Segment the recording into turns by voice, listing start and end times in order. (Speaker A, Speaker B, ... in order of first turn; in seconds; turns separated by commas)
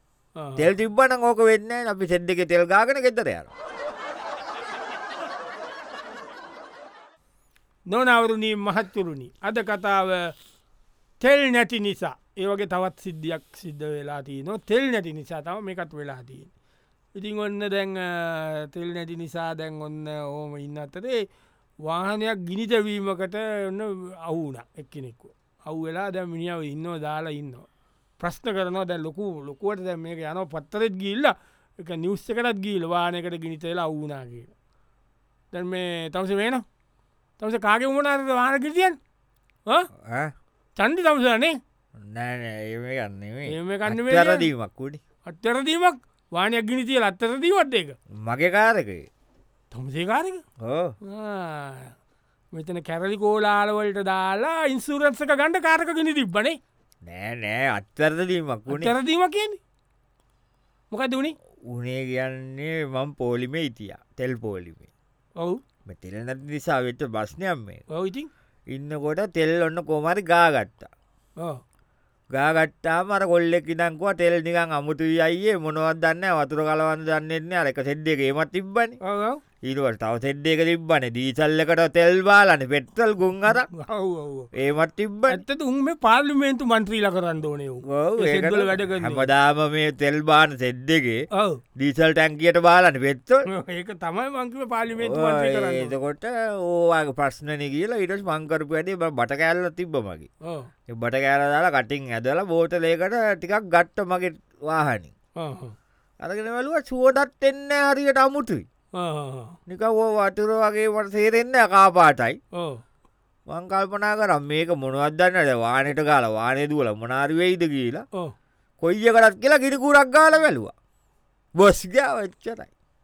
Speaker A: 0.4-0.7, Speaker B: 0.6-3.5, Speaker A: 7.9-10.3, Speaker A: 11.2-16.5, Speaker A: 17.1-21.2, Speaker A: 21.8-27.7, Speaker A: 28.2-34.5, Speaker A: 35.5-36.6, Speaker A: 37.4-39.0, Speaker B: 40.0-40.3, Speaker A: 40.8-41.6, Speaker B: 42.0-45.0, Speaker A: 43.5-44.5, Speaker A: 45.2-48.0, Speaker B: 48.2-49.1, Speaker A: 49.7-50.4, Speaker B: 50.6-50.9, Speaker A: 51.0-51.9, Speaker A: 52.5-56.6, Speaker B: 57.0-58.9, Speaker A: 58.7-59.6, Speaker A: 60.9-61.3, Speaker B: 61.7-64.9, Speaker B: 65.8-67.8, Speaker A: 67.9-68.3, Speaker B: 68.7-70.9, Speaker B: 72.3-79.0, Speaker A: 79.0-79.4, Speaker B: 79.6-83.7, Speaker A: 83.5-84.5, Speaker B: 84.5-85.4, Speaker A: 85.3-89.3, Speaker B: 87.9-91.2, Speaker A: 91.3-91.6, Speaker B: 91.8-93.5, Speaker A: 93.5-95.9, Speaker B: 95.0-100.3, Speaker A: 100.4-100.7, Speaker B: 100.9-105.1, Speaker A: 105.4-105.7, Speaker B: 106.2-108.7, Speaker A: 109.0-109.6, Speaker B: 109.7-112.4, Speaker A: 112.5-112.8, Speaker B: 113.5-118.0, Speaker B: 118.8-120.7, Speaker B: 121.5-122.7